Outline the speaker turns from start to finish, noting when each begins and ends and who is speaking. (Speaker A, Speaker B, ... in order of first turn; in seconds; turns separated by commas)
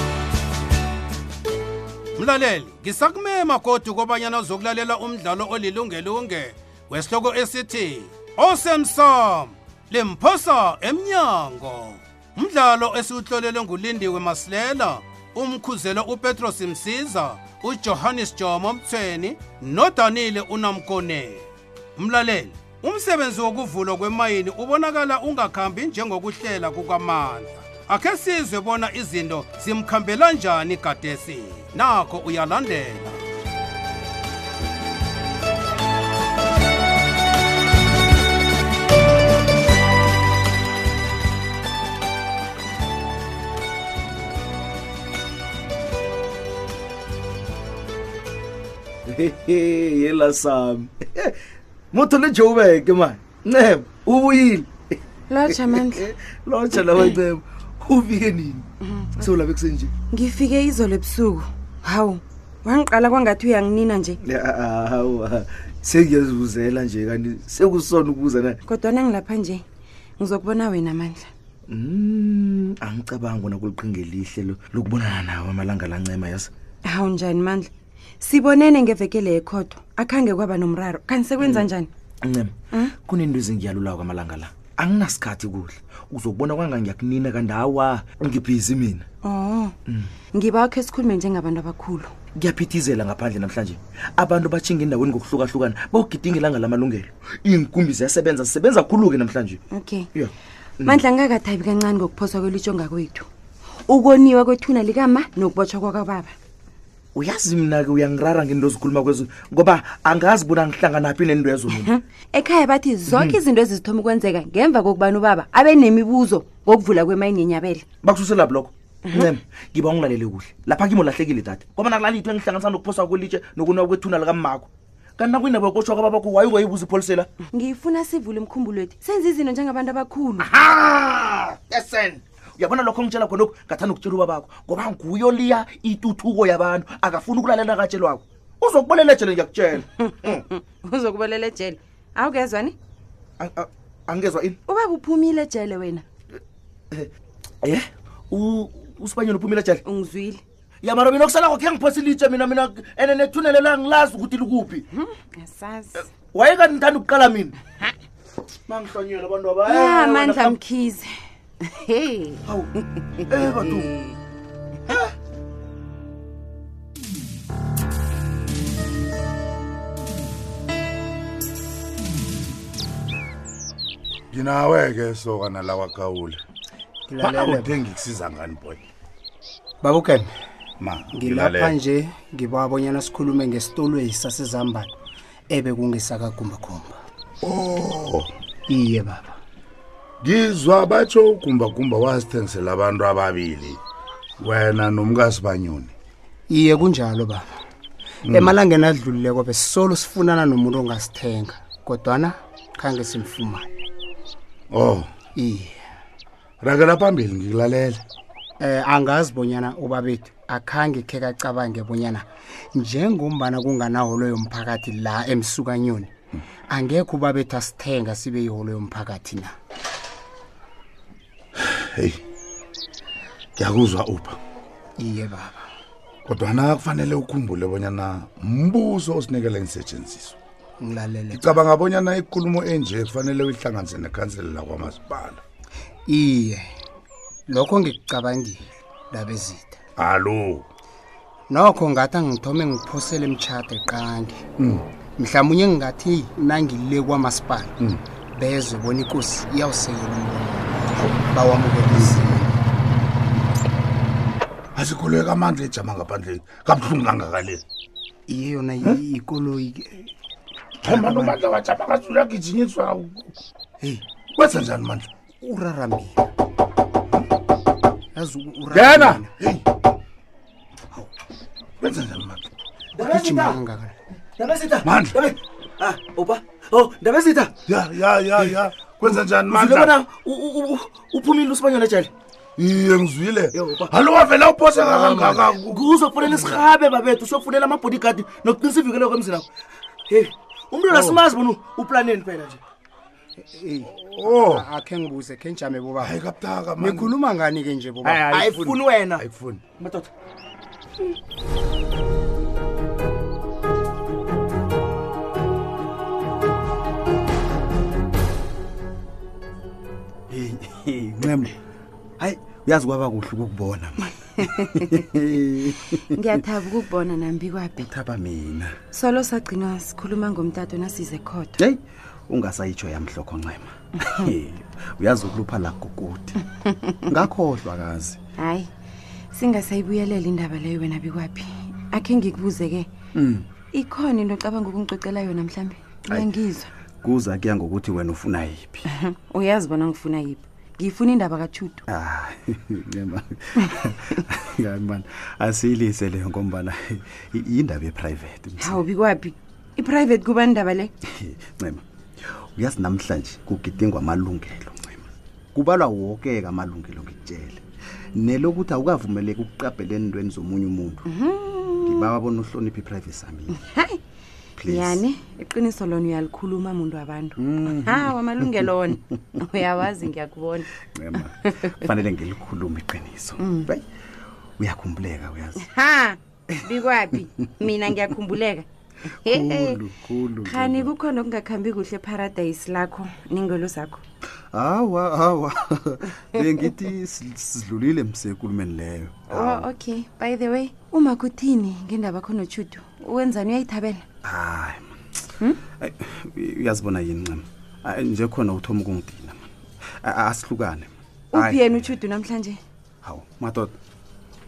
Speaker A: 2.2-33.2, Speaker B: 49.1-51.4, Speaker B: 51.9-58.6, Speaker C: 55.3-56.0, Speaker C: 58.8-59.4, Speaker B: 59.2-59.9, Speaker C: 60.1-64.2, Speaker B: 64.2-68.6, Speaker C: 68.7-69.6, Speaker C: 70.2-71.3, Speaker B: 71.7-76.5, Speaker C: 76.8-77.7, Speaker C: 78.2-81.9, Speaker B: 81.4-81.7, Speaker B: 82.2-89.1, Speaker C: 89.2-89.8, Speaker C: 90.3-92.2, Speaker B: 92.4-99.6, Speaker C: 99.7-100.1, Speaker C: 100.8-103.3, Speaker C: 103.9-106.3, Speaker B: 107.2-111.9, Speaker C: 111.7-117.9, Speaker B: 113.1-113.4, Speaker B: 118.0-127.3, Speaker C: 127.5-130.5, Speaker B: 130.4-140.4, Speaker D: 130.7-131.0, Speaker C: 139.9-142.8, Speaker B: 143.4-144.6, Speaker C: 144.7-146.1, Speaker B: 147.6-149.8, Speaker C: 149.8-150.4, Speaker B: 150.8-154.8, Speaker C: 154.9-156.1, Speaker B: 156.1-157.6, Speaker B: 158.7-160.6, Speaker C: 159.7-163.9, Speaker B: 163.3-163.9, Speaker D: 174.3-176.4, Speaker E: 177.1-177.8, Speaker D: 177.2-178.8, Speaker E: 179.8-180.3, Speaker D: 180.8-181.8, Speaker E: 181.1-184.9, Speaker E: 185.5-187.0, Speaker D: 187.4-188.3, Speaker E: 188.7-189.4, Speaker D: 190.2-193.8, Speaker D: 194.4-195.9, Speaker E: 196.5-197.5, Speaker D: 198.3-198.5, Speaker E: 198.3-203.7, Speaker D: 204.7-205.1, Speaker E: 205.3-205.8, Speaker D: 206.6-208.0, Speaker E: 208.6-216.1, Speaker E: 216.7-219.5, Speaker D: 221.6-222.2, Speaker D: 223.6-224.4, Speaker E: 225.0-225.6, Speaker D: 226.3-230.4, Speaker E: 230.8-231.6, Speaker D: 231.3-235.4, Speaker E: 236.1-236.6, Speaker E: 237.5-239.8, Speaker D: 240.0-240.7, Speaker E: 241.5-244.4, Speaker D: 244.6-244.8, Speaker E: 245.2-247.7, Speaker E: 248.4-252.5, Speaker D: 250.9-251.2, Speaker D: 251.9-252.3, Speaker D: 254.8-257.6, Speaker E: 258.3-260.1, Speaker D: 260.8-263.3, Speaker E: 260.9-261.4, Speaker D: 264.4-265.1, Speaker E: 265.4-266.2, Speaker E: 268.2-269.3, Speaker D: 268.7-269.6, Speaker D: 271.8-272.4, Speaker B: 272.9-273.6, Speaker E: 273.1-273.9, Speaker B: 274.4-277.6, Speaker D: 274.8-275.2, Speaker D: 277.7-280.0, Speaker B: 278.4-282.1, Speaker D: 282.6-286.7, Speaker B: 283.5-283.9, Speaker B: 284.7-289.5, Speaker B: 290.1-292.6, Speaker E: 293.5-296.2, Speaker D: 293.9-294.7, Speaker D: 296.0-297.2, Speaker E: 296.8-298.4, Speaker D: 298.1-299.6, Speaker B: 298.1-300.1, Speaker F: 310.3-311.6, Speaker F: 312.2-316.4, Speaker C: 314.4-315.0, Speaker C: 316.1-317.9, Speaker F: 317.8-318.8, Speaker C: 318.9-321.6, Speaker F: 321.6-326.4, Speaker C: 326.6-327.1, Speaker F: 327.1-328.2, Speaker C: 328.4-328.7, Speaker C: 329.3-332.9, Speaker F: 333.1-333.5, Speaker C: 333.7-336.7, Speaker F: 336.1-336.4, Speaker F: 337.0-338.9, Speaker C: 338.9-341.9, Speaker F: 341.9-348.8, Speaker C: 348.6-350.9, Speaker F: 351.1-357.6, Speaker F: 358.2-361.1, Speaker C: 361.1-362.1, Speaker F: 361.8-363.6, Speaker C: 363.6-364.0, Speaker F: 364.6-365.0, Speaker C: 364.7-371.7, Speaker F: 367.4-368.8, Speaker F: 370.9-373.9, Speaker C: 373.4-373.7, Speaker F: 374.6-375.6, Speaker C: 375.6-378.7, Speaker C: 379.2-379.8, Speaker F: 379.2-380.9, Speaker C: 380.4-384.0, Speaker F: 384.5-389.7, Speaker C: 389.3-394.0, Speaker F: 394.2-395.0, Speaker F: 395.8-399.5, Speaker F: 400.0-401.9, Speaker C: 401.3-402.6, Speaker F: 403.0-403.8